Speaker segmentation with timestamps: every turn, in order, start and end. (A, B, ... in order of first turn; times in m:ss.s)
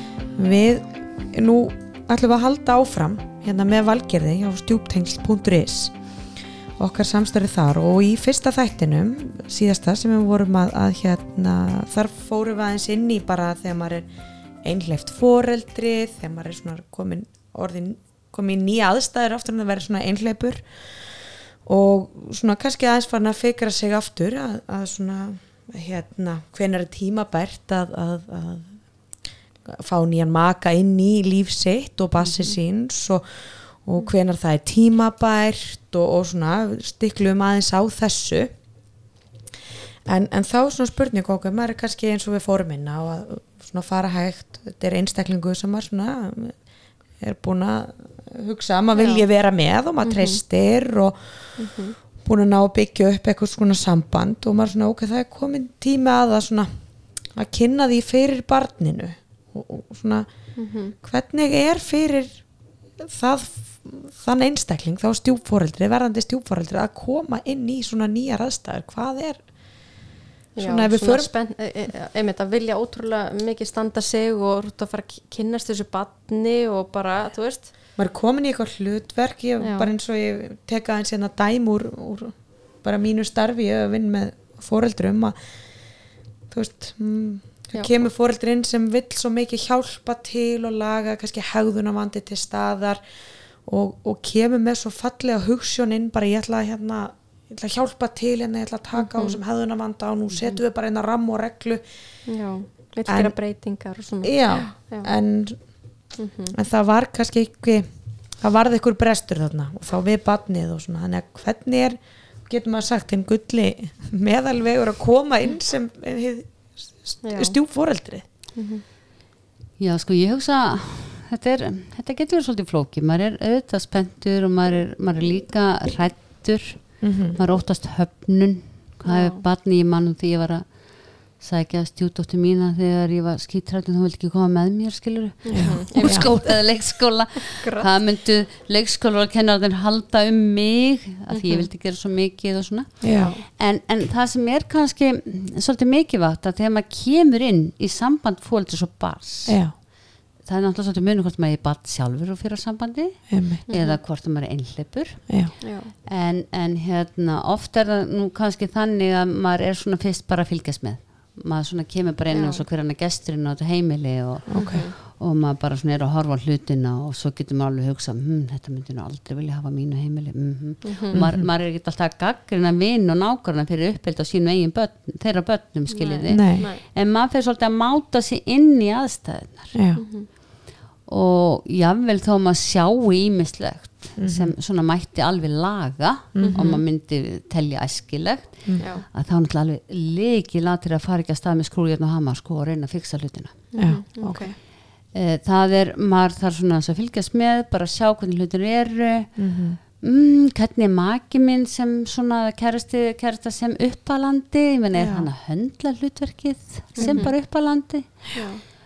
0:00.4-0:06.0 A
0:06.8-0:14.1 A
0:14.6-0:20.6 A
0:21.6-0:28.8 A
0:29.6-0:38.5 A
0:32.2-0:32.6 B
0:40.1-0:56.7 A
0:49.0-0:49.3 C
0:50.0-0:50.4 C
0:51.6-0:52.0 C
0:57.3-1:02.4 A
1:00.6-1:01.0 C
1:03.0-1:09.9 A
1:10.6-1:17.8 C
1:10.6-1:11.3 A
1:18.0-1:25.4 A
1:19.6-1:19.9 C
1:26.5-1:33.0 A
1:33.6-1:41.8 A
1:38.9-1:39.4 C
1:40.3-1:40.6 B
1:42.3-1:45.1 C
1:43.1-1:47.9 A
1:46.2-1:46.6 C
1:48.4-1:58.3 A
1:57.2-1:57.6 C
1:58.5-1:58.8 C
1:59.8-2:59.8 B
2:07.0-2:07.4 A
2:09.0-2:09.4 C
2:15.4-2:17.9 C
2:15.5-2:16.3 A
2:21.3-2:21.7 C
2:23.0-2:23.3 A
2:23.2-2:23.4 C
2:29.5-2:29.7 A
2:33.3-2:33.6 A
2:33.7-2:34.0 C
2:35.6-2:35.9 C
2:42.3-2:42.6 C
2:44.5-2:44.8 A
2:44.6-2:44.9 C
2:50.8-2:51.2 C
2:51.1-2:51.5 A
2:55.9-2:56.8 C
2:56.3-2:56.7 A
2:59.7-3:00.0 A
3:00.0-3:00.3 C
3:01.0-3:13.6 B
3:04.2-3:04.6 A
3:06.4-3:06.6 A
3:06.4-3:06.8 C
3:08.8-3:09.1 C
3:13.7-3:14.6 C
3:13.8-3:14.5 A
3:15.1-3:28.5 B
3:19.4-3:19.8 A
3:24.9-3:25.3 A
3:27.0-3:27.4 A
3:27.0-3:27.6 C
3:28.3-3:28.6 C